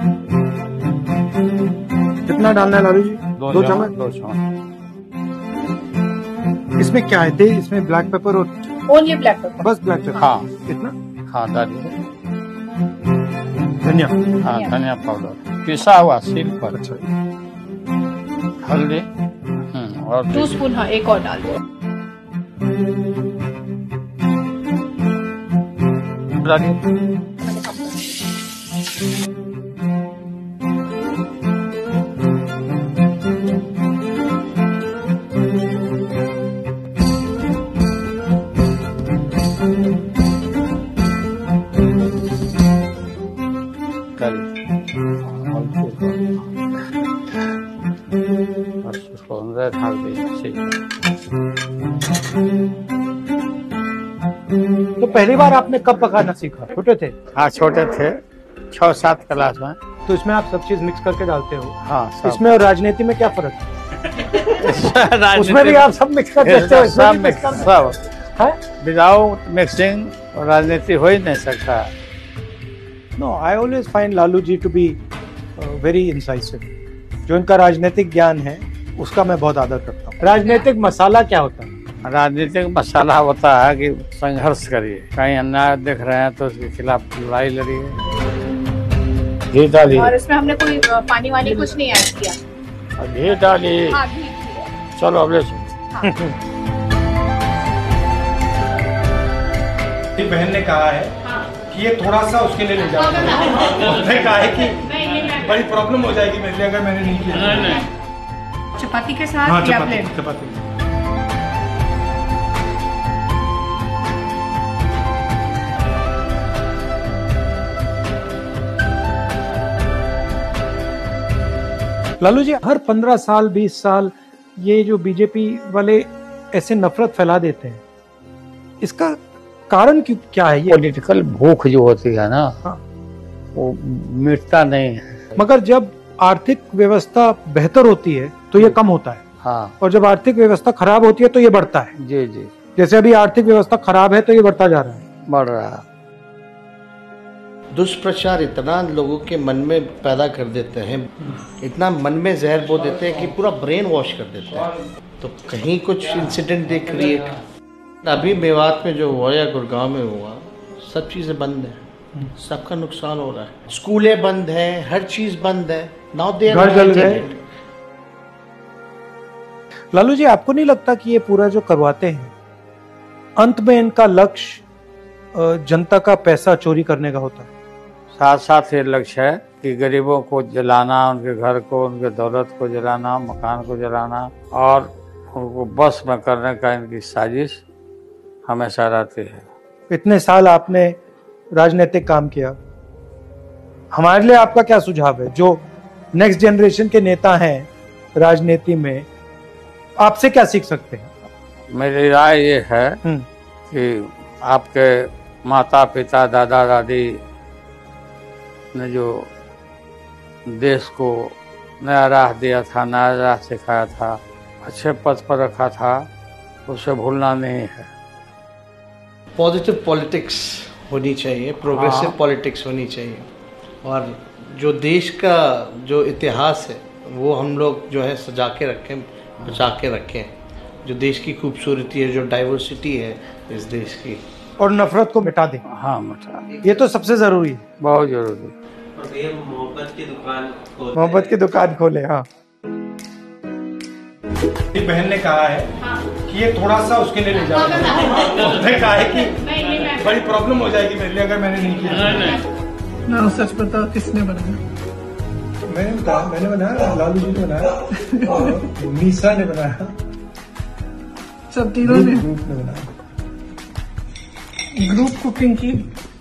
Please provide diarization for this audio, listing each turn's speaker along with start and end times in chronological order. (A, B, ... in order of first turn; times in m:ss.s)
0:02.3-0:03.9 A
0:03.4-0:04.4 B
0:06.8-0:08.6 A
0:08.9-0:09.6 C
0:09.6-0:10.9 A
0:10.2-0:10.5 B
0:11.3-0:11.9 B
0:13.8-0:14.2 A
0:14.4-0:16.8 B
0:14.4-0:14.7 C
0:16.7-0:17.0 A
0:18.6-0:19.0 B
0:19.7-0:20.6 B
0:20.3-0:21.6 C
0:26.4-0:26.8 B
0:27.4-0:28.0 C
0:44.2-0:44.5 B
0:45.3-0:46.3 B
0:48.8-0:50.8 B
0:55.0-0:57.1 A
0:57.3-0:58.2 B
0:58.7-0:59.8 B
1:00.0-1:03.7 A
1:01.8-1:02.4 B
1:04.4-1:08.0 B
1:05.3-1:07.8 A
1:08.3-1:08.6 A
1:08.8-1:11.9 B
1:13.2-1:15.0 A
1:15.6-1:16.7 A
1:17.3-1:21.8 A
1:22.0-1:28.0 B
1:29.5-1:30.1 B
1:29.9-1:32.4 C
1:33.0-1:34.0 B
1:33.7-1:34.8 C
1:35.0-1:35.7 B
1:35.9-1:36.2 C
1:36.0-1:36.4 A
1:40.2-1:47.8 A
1:41.2-1:41.5 C
1:42.8-1:45.6 C
1:47.6-1:47.8 C
1:48.8-1:50.1 C
1:49.4-1:50.6 A
2:02.2-2:07.8 A
2:08.8-2:10.8 A
2:10.7-2:12.6 B
2:13.5-2:15.4 B
2:15.4-2:19.2 A
2:19.4-2:19.8 B
2:19.8-2:21.9 A
2:22.0-2:22.5 B
2:22.8-2:25.0 A
2:25.3-2:25.8 B
2:27.7-2:37.3 D
2:38.0-2:41.8 D
2:42.3-2:47.4 D
2:46.5-2:47.2 A
2:49.9-2:52.3 A
2:53.4-2:54.6 A
2:55.3-2:57.5 A
2:58.2-3:07.6 B
3:08.5-3:09.4 B
3:09.9-3:10.9 A
3:11.5-3:12.6 A
3:13.9-3:15.6 A
3:16.1-3:19.0 A
3:20.0-3:21.1 A
3:21.7-3:23.0 B
3:23.7-3:27.1 B
3:28.7-3:29.3 B
3:30.6-3:36.0 B
3:36.7-3:37.9 B
3:39.4-3:43.3 D
3:41.7-3:42.2 B
3:43.8-3:50.3 D
3:50.8-3:54.2 D
3:54.6-3:55.6 A
3:55.7-3:56.5 B
3:56.6-3:57.6 A
3:57.8-3:58.5 B
4:00.9-4:02.2 A
4:04.7-4:05.7 A
4:06.2-4:12.4 A
4:07.4-4:10.2 C
4:11.6-4:12.4 C
4:13.1-4:14.6 E
4:15.7-4:19.9 A
4:18.0-4:18.5 E
4:21.5-4:22.3 E
4:21.8-4:22.9 A
4:24.7-4:25.9 E